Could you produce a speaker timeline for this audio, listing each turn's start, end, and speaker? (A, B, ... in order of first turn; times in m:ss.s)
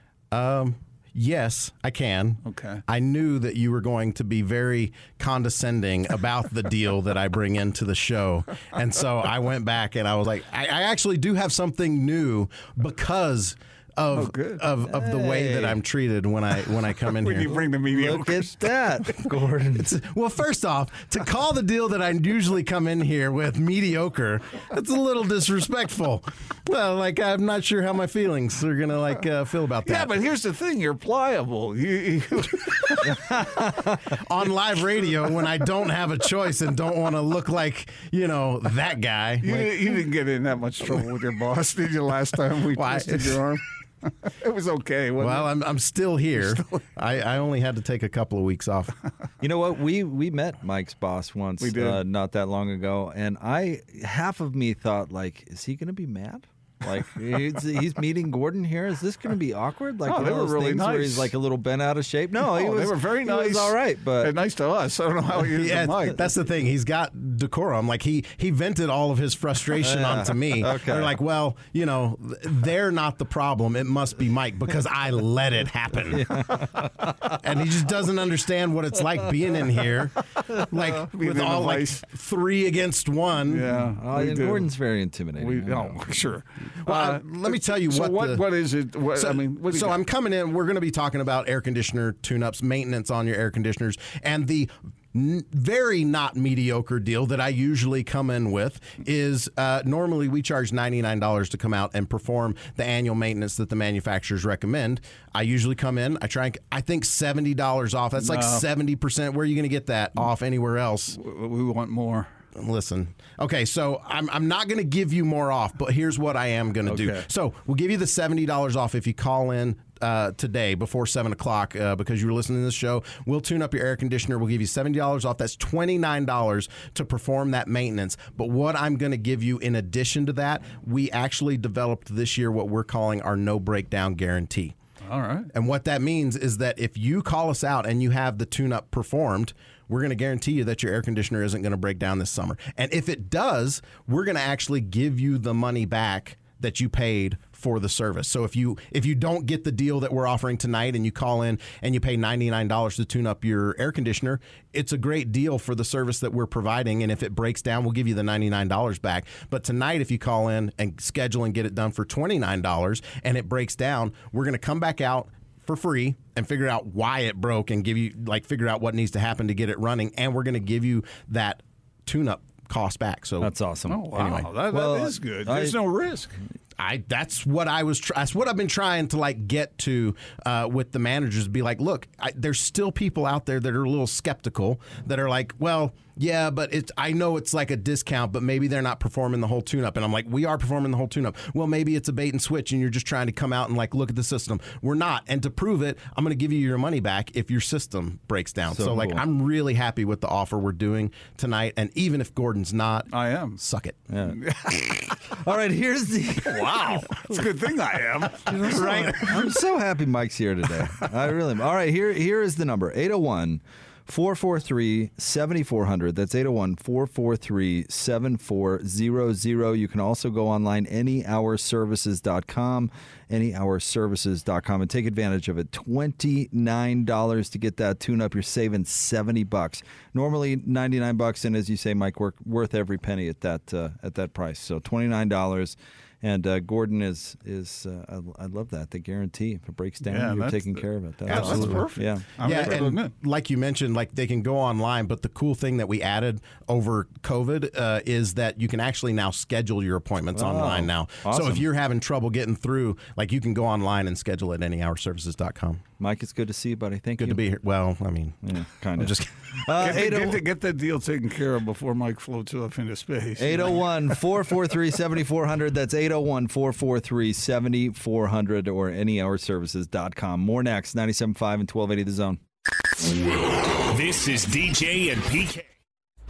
0:00.3-0:17.6 A
0:02.4-0:02.8 B
0:14.1-0:14.6 B
0:14.8-0:15.8 C
0:17.1-0:19.0 B
0:17.8-0:19.9 C
0:19.7-0:30.1 A
0:29.8-0:33.2 B
0:33.0-0:34.1 C
0:34.2-0:39.8 A
0:39.4-0:45.5 B
0:42.7-0:43.4 A
0:45.2-0:48.9 A
0:46.3-0:46.8 B
0:49.4-1:04.3 C
0:51.6-0:52.0 B
1:00.0-1:01.3 B
1:02.4-1:06.3 B
1:05.4-1:16.4 A
1:09.8-1:11.2 C
1:16.1-1:17.3 C
1:17.4-1:23.8 A
1:21.0-1:22.0 B
1:23.5-1:24.7 B
1:23.9-1:26.0 C
1:25.4-1:30.0 B
1:26.8-1:28.4 A
1:29.1-1:51.2 A
1:48.2-1:48.6 B
1:51.1-1:52.3 B
1:52.5-2:14.7 A
1:56.8-1:57.3 B
2:15.0-2:15.5 B
2:15.5-2:53.5 A
2:53.4-2:55.8 C
2:53.9-2:56.3 B
2:54.1-2:54.5 A
2:56.8-3:24.0 A
3:18.7-3:19.2 C
3:23.1-3:23.6 B
3:24.1-3:24.4 C
3:24.3-3:25.2 B
3:25.2-3:27.4 C
3:26.4-3:29.6 B
3:28.4-4:02.3 C
4:00.0-4:03.1 B
4:01.3-4:15.8 A
4:10.3-4:11.6 C
4:16.0-4:17.4 C
4:17.2-4:19.6 A
4:18.4-4:20.4 C
4:19.7-4:24.2 B
4:23.4-4:32.4 C
4:33.7-4:35.7 D